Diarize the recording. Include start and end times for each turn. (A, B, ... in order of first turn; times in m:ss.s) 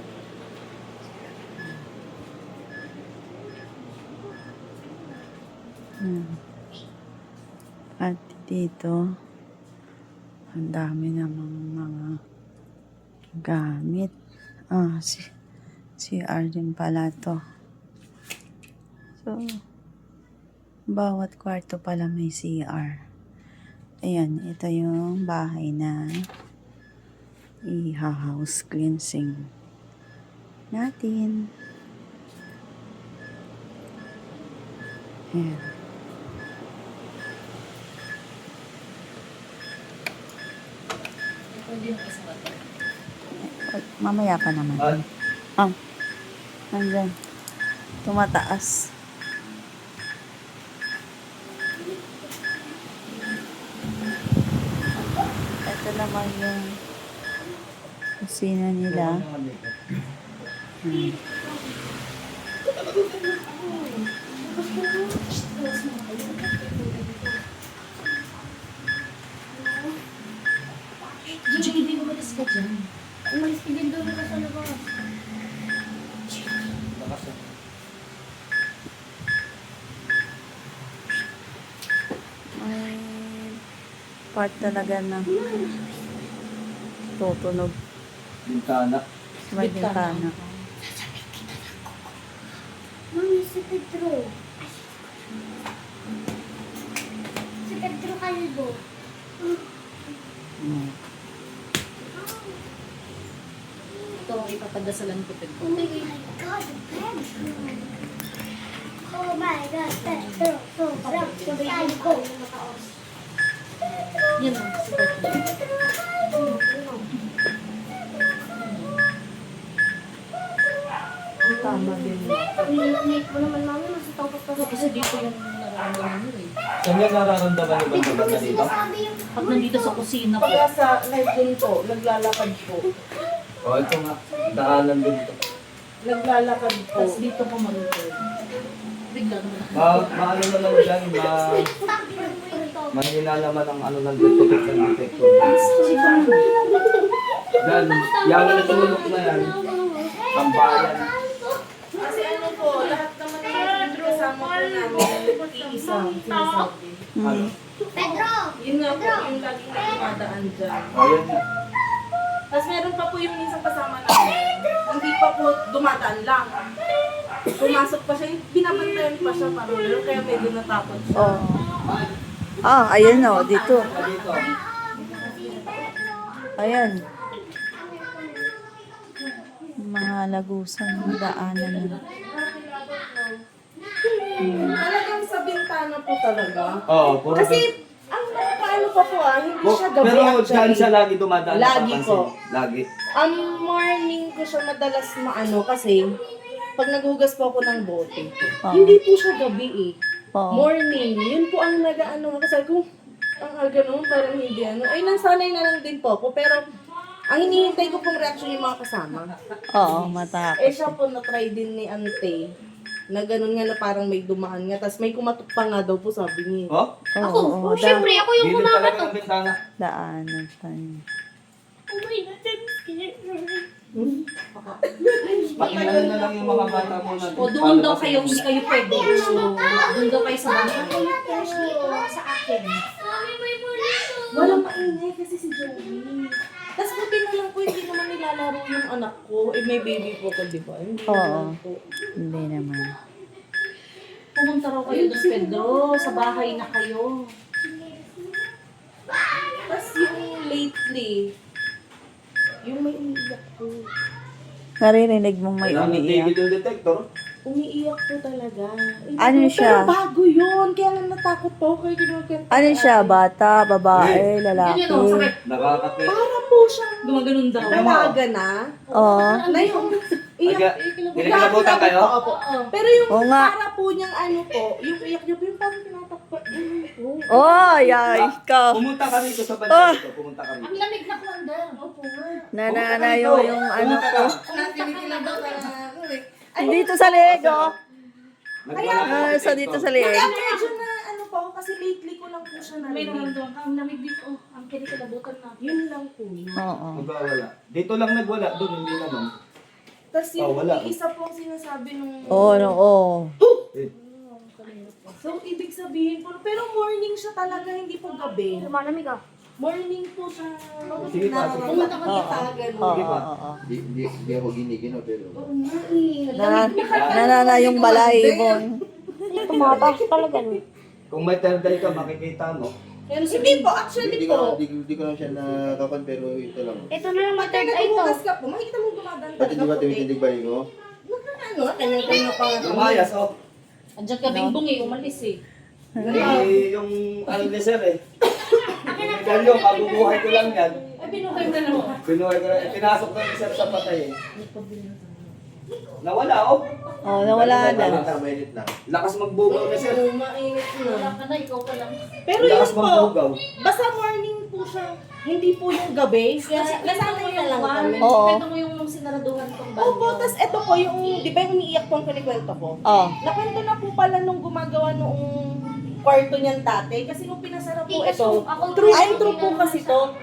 0:01.4-0:01.8 A
0:06.0-0:06.4 A
0:08.0-0:09.0 A
0:10.5-0:12.2 A
0:13.4-0:14.1 A
0:14.7-0:15.3 A
0:16.0-0:17.4 A
0:21.0-0:22.9 A
0:24.1-0:26.0 A
0:27.7-0:29.5 A
0:30.7-0:31.5 A
0:35.3-0:35.7 A
0:41.5-0:42.6 B
0:43.5-0:44.9 A
0:46.7-0:47.1 A
0:48.0-0:48.8 A
0:51.8-0:52.8 C
0:55.0-0:56.7 A
0:58.2-0:59.2 A
0:58.9-0:59.7 D
1:00.8-1:01.2 A
1:00.9-1:01.9 C
1:03.8-1:04.0 C
1:04.5-1:07.4 B
1:09.5-1:10.0 C
1:11.3-1:11.9 C
1:11.5-1:12.9 B
1:13.3-1:14.8 C
1:16.9-1:17.4 D
1:22.6-1:23.6 A
1:24.3-1:25.3 A
1:27.2-1:27.7 A
1:28.5-1:29.0 D
1:29.5-1:30.4 A
1:29.5-1:30.7 B
1:33.1-1:34.8 C
1:37.7-1:38.8 C
1:40.6-1:41.0 A
1:42.1-1:42.6 C
1:44.2-1:46.1 B
1:45.6-1:47.9 C
1:49.1-1:52.9 C
1:50.0-1:52.0 B
1:54.4-1:55.5 B
1:56.4-1:57.0 C
1:58.6-1:58.9 B
2:01.4-2:02.8 E
2:01.5-2:05.1 C
2:04.5-2:06.6 B
2:06.8-2:08.8 D
2:07.9-2:09.9 C
2:09.4-2:10.6 B
2:10.4-2:12.9 E
2:13.6-2:15.4 D
2:16.0-2:17.2 E
2:17.0-2:18.3 B
2:19.1-2:20.1 B
2:19.7-2:21.6 D
2:20.7-2:23.0 C
2:22.9-2:25.7 D
2:25.4-2:26.5 E
2:25.4-2:26.4 B
2:25.8-2:26.4 C
2:27.6-2:29.6 D
2:27.7-2:32.9 C
2:28.7-2:28.9 B
2:30.3-2:31.1 D
2:32.0-2:37.0 E
2:33.6-2:36.4 C
2:37.2-2:37.5 A
2:37.2-2:37.5 D
2:37.9-2:39.4 C
2:38.0-2:41.0 E
2:40.9-2:41.4 D
2:42.5-2:46.5 E
2:47.5-2:51.4 E
2:51.2-2:51.7 A
2:51.8-2:52.1 D
2:52.6-2:53.9 A
2:52.9-2:55.9 E
2:53.4-2:53.7 B
2:53.9-2:54.5 D
2:55.0-2:55.9 B
2:55.4-2:55.9 C
2:56.5-2:56.8 C
2:56.6-2:57.0 A
2:57.6-2:58.6 C
2:59.8-3:02.0 A
3:01.0-3:02.2 B
3:01.9-3:03.3 E
3:04.1-3:10.9 E
3:04.4-3:04.8 C
3:04.4-3:04.8 A
3:06.9-3:07.7 D
3:09.6-3:12.8 D
3:11.5-3:12.3 E
3:13.2-3:16.0 E
3:16.8-3:20.0 E
3:18.7-3:19.0 A
3:20.4-3:20.7 A
3:20.5-3:22.8 E
3:23.4-3:26.7 E
3:27.3-3:29.4 E
3:29.8-3:31.0 A
3:30.6-3:32.4 E
3:33.1-3:36.7 E
3:37.2-3:38.2 A
3:37.2-3:39.2 C
3:38.4-3:39.6 D
3:39.8-3:41.0 A
3:41.9-3:43.7 C
3:44.0-3:44.2 E
3:44.6-3:45.8 B
3:45.0-3:47.0 E
3:45.4-3:46.3 C
3:45.6-3:48.5 D
3:47.4-3:51.0 B
3:48.6-3:52.1 C
3:48.9-3:50.0 E
3:50.6-3:52.1 E
3:52.0-3:52.8 B
3:53.0-3:54.5 C
3:54.3-4:01.8 E
4:01.1-4:01.5 A
4:02.2-4:02.9 A
4:04.4-4:07.3 B
4:04.9-4:06.7 E
4:07.7-4:08.2 C
4:09.7-4:11.3 E
4:12.6-4:13.9 E
4:14.8-4:16.3 A
4:15.6-4:17.1 D
4:17.4-4:23.2 E
4:19.2-4:19.9 A
4:22.5-4:25.3 A
4:23.9-4:24.2 D
4:24.5-4:25.4 B
4:25.4-4:26.2 D
4:26.1-4:28.6 E
4:27.0-4:28.0 B
4:27.6-4:28.1 D
4:28.9-4:30.1 B
4:28.9-4:29.4 A
4:29.5-4:38.1 E
4:30.5-4:32.1 D
4:31.9-4:32.7 B
4:33.1-4:33.5 A
4:37.3-4:38.8 A
4:38.1-4:40.7 D
4:39.7-4:40.0 A
4:40.6-4:41.8 B
4:41.8-4:42.5 E
4:42.5-4:44.4 A
4:42.7-4:44.4 D
4:44.5-4:47.7 E
4:44.5-4:45.7 B
4:46.6-4:47.7 A
4:47.3-4:47.6 D
4:48.7-4:49.9 D
4:48.8-4:49.4 E
4:49.0-4:50.3 A
4:50.0-4:53.4 E
4:50.1-4:50.8 B
4:52.8-4:55.6 B
4:55.6-4:56.6 E
4:56.6-4:57.1 A
4:57.0-4:59.3 D
5:00.1-5:02.8 E
5:00.4-5:00.9 D
5:02.3-5:03.4 A
5:03.4-5:03.7 E
5:04.3-5:05.2 B
5:05.1-5:08.7 E
5:08.6-5:09.2 C
5:09.6-5:13.1 E
5:11.0-5:11.9 D
5:11.6-5:12.4 B
5:12.0-5:13.6 A
5:12.9-5:13.3 D
5:13.7-5:15.5 F
5:15.4-5:18.6 E
5:16.3-5:17.3 B
5:16.4-5:18.8 A
5:16.9-5:17.3 D
5:19.3-5:20.6 C
5:19.3-5:20.6 E
5:19.5-5:19.8 D
5:21.1-5:22.7 D
5:23.1-5:24.6 E
5:23.3-5:23.7 B
5:23.9-5:26.9 F
5:26.9-5:28.2 C
5:27.3-5:30.1 E
5:29.4-5:30.7 F
5:31.0-5:33.1 E
5:32.6-5:33.3 D
5:34.0-5:35.4 B
5:34.2-5:34.6 A
5:34.8-5:35.2 E
5:36.0-5:36.4 A
5:36.0-5:36.6 E
5:36.1-5:38.0 D
5:38.9-5:40.8 D
5:39.4-5:39.8 B
5:39.8-5:40.6 C
5:41.0-5:42.0 B
5:41.3-5:41.8 E
5:42.0-5:44.2 D
5:42.7-5:43.5 B
5:44.4-5:45.4 B
5:46.0-5:46.6 D
5:46.9-5:47.7 E
5:47.0-5:48.1 A
5:47.4-5:48.7 F
5:47.7-5:48.3 D
5:48.9-5:50.0 D
5:49.5-5:51.2 E
5:50.7-5:52.1 B
5:52.3-5:58.1 E
5:52.4-5:53.4 D
5:56.4-6:00.4 B
5:58.0-5:58.4 A
5:59.8-6:10.1 E
6:02.9-6:03.2 A
6:07.9-6:10.1 C
6:08.8-6:09.4 B